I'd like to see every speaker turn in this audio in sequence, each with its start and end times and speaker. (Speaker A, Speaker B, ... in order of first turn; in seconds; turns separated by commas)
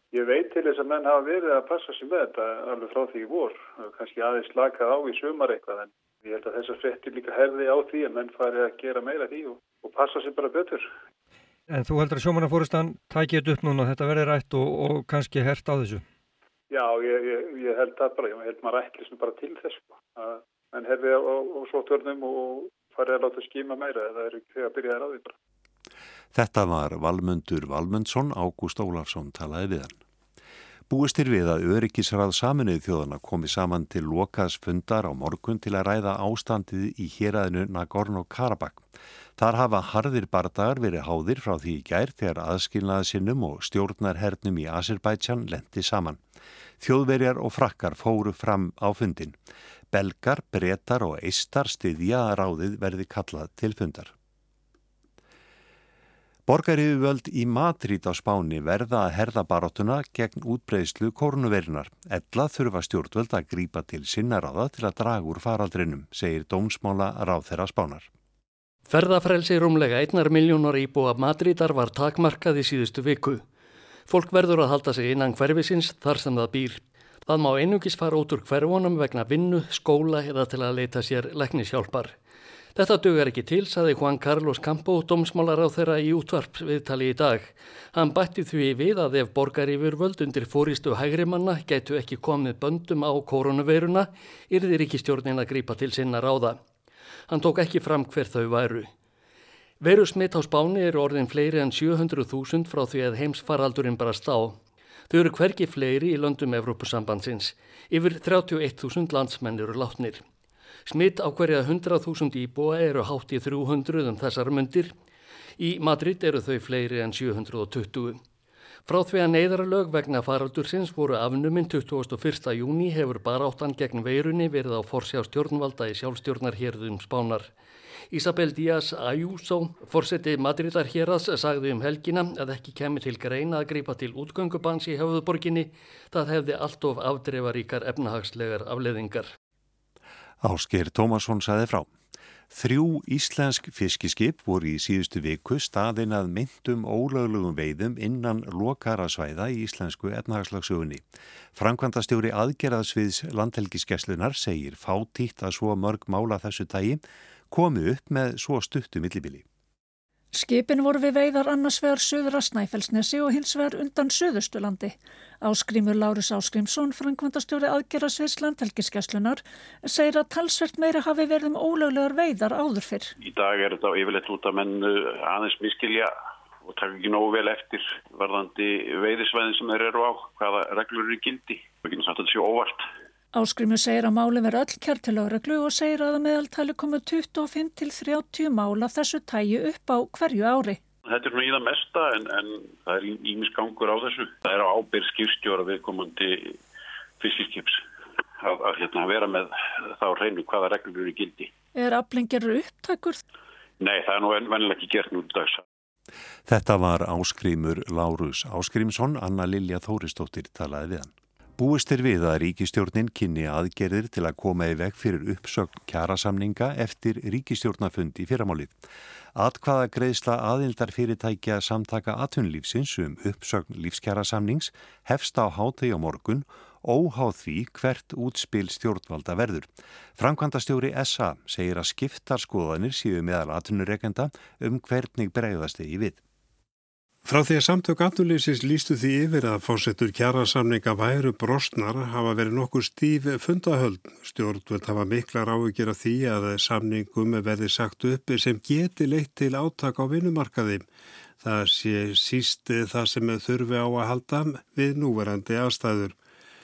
Speaker A: 0.1-10.9, Speaker B: 11.7-16.0, Speaker A: 16.7-25.3, Speaker C: 26.3-30.0, Speaker C: 30.9-38.8, Speaker C: 39.4-46.2, Speaker C: 46.8-49.4, Speaker C: 49.9-54.1, Speaker C: 56.5-68.1, Speaker D: 68.9-73.4, Speaker D: 74.1-82.2, Speaker D: 82.8-96.6, Speaker D: 97.3-98.9, Speaker D: 99.8-110.2, Speaker D: 110.9-114.9, Speaker D: 115.6-118.2, Speaker D: 118.9-127.5, Speaker D: 128.1-139.3, Speaker C: 140.4-141.9, Speaker C: 142.5-151.0, Speaker C: 151.6-159.4, Speaker E: 160.3-173.1, Speaker F: 173.2-176.1, Speaker F: 176.7-182.9, Speaker E: 183.3-190.8, Speaker F: 191.1-196.6, Speaker F: 197.2-197.8, Speaker F: 198.4-201.5, Speaker E: 201.7-203.2, Speaker F: 203.8-205.6, Speaker C: 206.5-218.8, Speaker C: 219.3-236.2, Speaker G: 237.2-250.8, Speaker G: 251.4-256.1